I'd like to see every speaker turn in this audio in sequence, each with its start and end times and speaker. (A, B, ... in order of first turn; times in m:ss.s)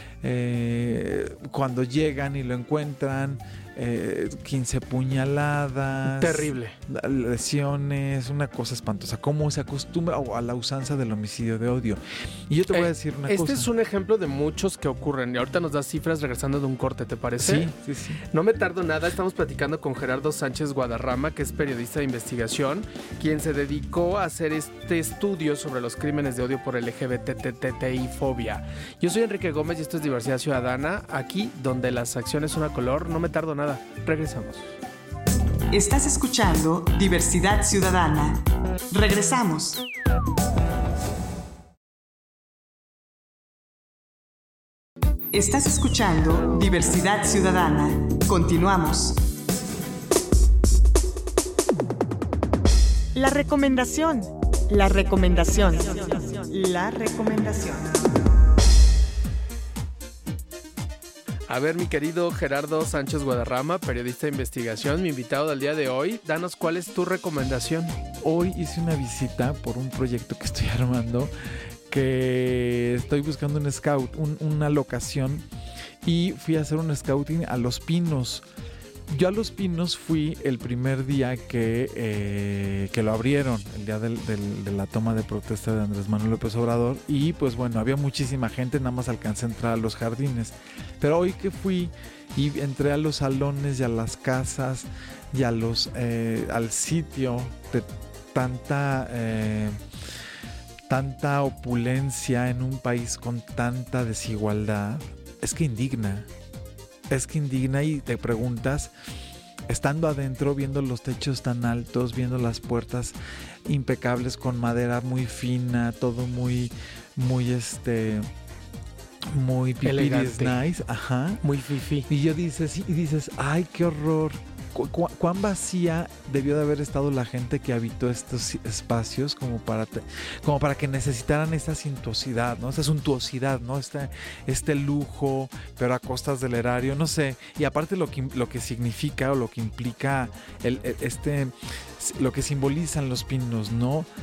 0:00.2-0:13.7 A
0:06.0-0:06.8 B
0:12.7-0:17.7 B
0:17.4-0:18.2 A
0:18.3-0:34.8 B
0:35.7-0:39.8 C
0:45.3-0:49.2 C
0:53.1-0:57.9 C
1:01.5-1:08.0 B
1:08.2-1:11.3 A
1:11.9-1:15.5 A
1:16.0-1:18.4 A
1:19.1-1:39.8 A
1:40.9-1:46.3 A
1:47.1-1:48.9 A
1:49.7-1:58.3 A
1:59.3-2:01.4 A
1:59.8-2:00.6 B
2:01.4-2:02.1 B
2:02.1-2:24.1 A